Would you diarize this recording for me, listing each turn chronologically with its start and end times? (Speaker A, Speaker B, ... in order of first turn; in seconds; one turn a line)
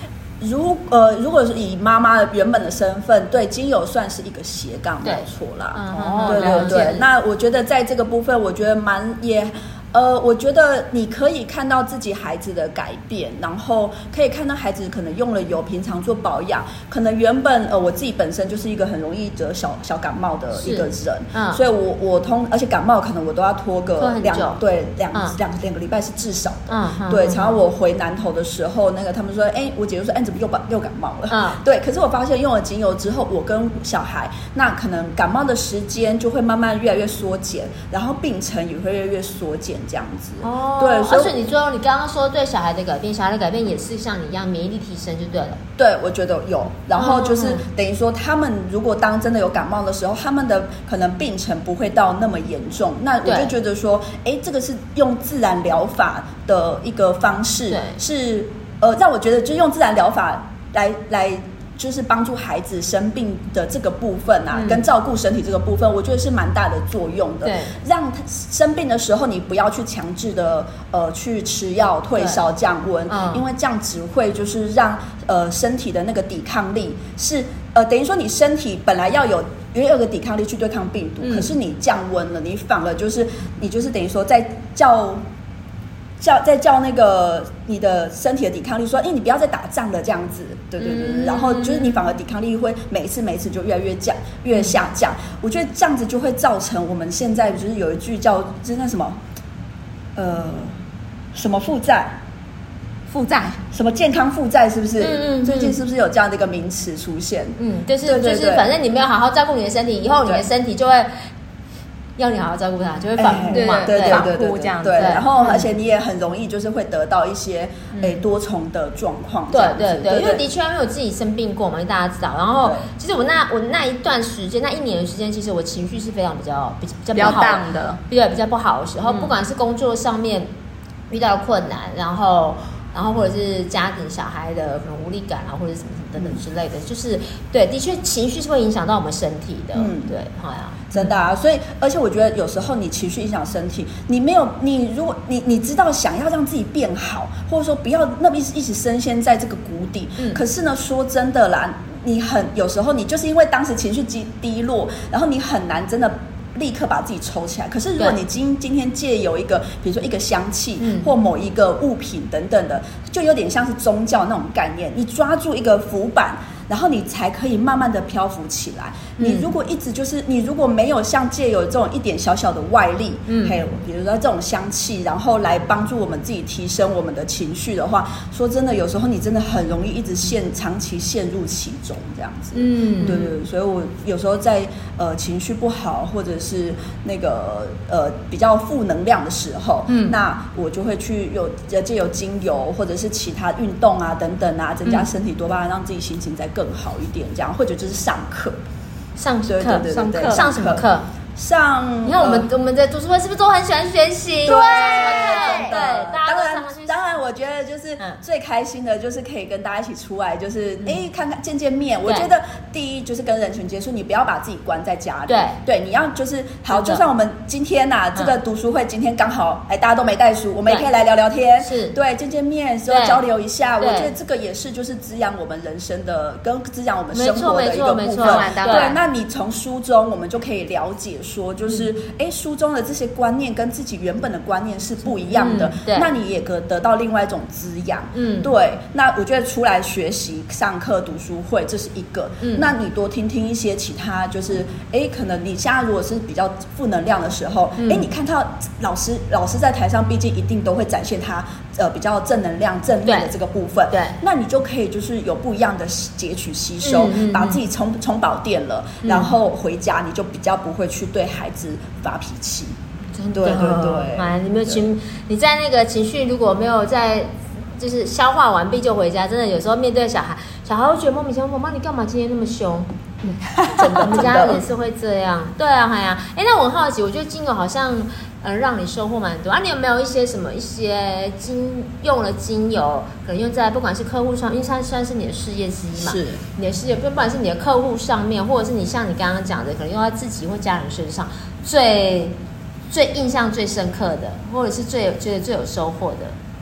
Speaker A: 0.4-41.4
Speaker B: 5.0-7.0
Speaker C: 6.2-7.0
Speaker B: 20.6-21.6
Speaker B: 24.0-24.6
Speaker B: 26.7-27.6
Speaker B: 31.3-31.6
Speaker B: 40.4-45.6
Speaker A: 45.8-85.2
Speaker B: 46.9-47.6
Speaker B: 53.2-53.5
Speaker B: 57.7-58.0
Speaker B: 64.5-64.8
Speaker B: 67.4-67.7
Speaker B: 73.1-73.4
Speaker B: 81.2-81.5
Speaker A: 86.2-99.2
Speaker B: 90.8-92.0
Speaker A: 100.2-100.7
Speaker A: 101.3-102.2
Speaker C: 103.1-103.6
Speaker A: 103.7-108.7
Speaker B: 105.0-105.8
Speaker B: 107.6-111.1
Speaker B: 112.2-114.3
Speaker A: 113.2-120.4
Speaker C: 113.5-115.2
Speaker B: 114.9-115.7
Speaker B: 117.9-118.2
Speaker B: 119.5-130.5
Speaker A: 122.6-122.9
Speaker C: 127.1-128.0
Speaker C: 129.1-129.3
Speaker B: 131.1-140.9
Speaker A: 139.7-140.1
Speaker A: 140.9-198.6
Speaker B: 160.8-161.1
Speaker B: 169.2-169.5
Speaker B: 173.3-173.6
Speaker B: 182.5-183.2
Speaker B: 189.9-190.1
Speaker B: 199.2-201.1
Speaker A: 199.4-202.5
Speaker C: 199.9-200.5
Speaker B: 202.0-207.0
Speaker A: 204.4-262.7
Speaker C: 204.9-205.7
Speaker B: 215.3-215.6
Speaker B: 216.7-217.0
Speaker B: 221.6-221.9
Speaker B: 222.9-223.2
Speaker B: 223.8-224.1
Speaker B: 227.1-228.9
Speaker C: 228.2-229.0
Speaker B: 235.3-236.1
Speaker B: 238.1-238.5
Speaker B: 242.4-242.7
Speaker B: 247.8-248.1
Speaker B: 253.1-253.3
Speaker B: 253.9-254.2
Speaker B: 256.8-257.6
Speaker B: 259.0-259.3
Speaker B: 263.1-292.4
Speaker A: 263.3-264.8
Speaker A: 273.7-274.6
Speaker A: 286.0-286.4
Speaker B: 292.9-296.3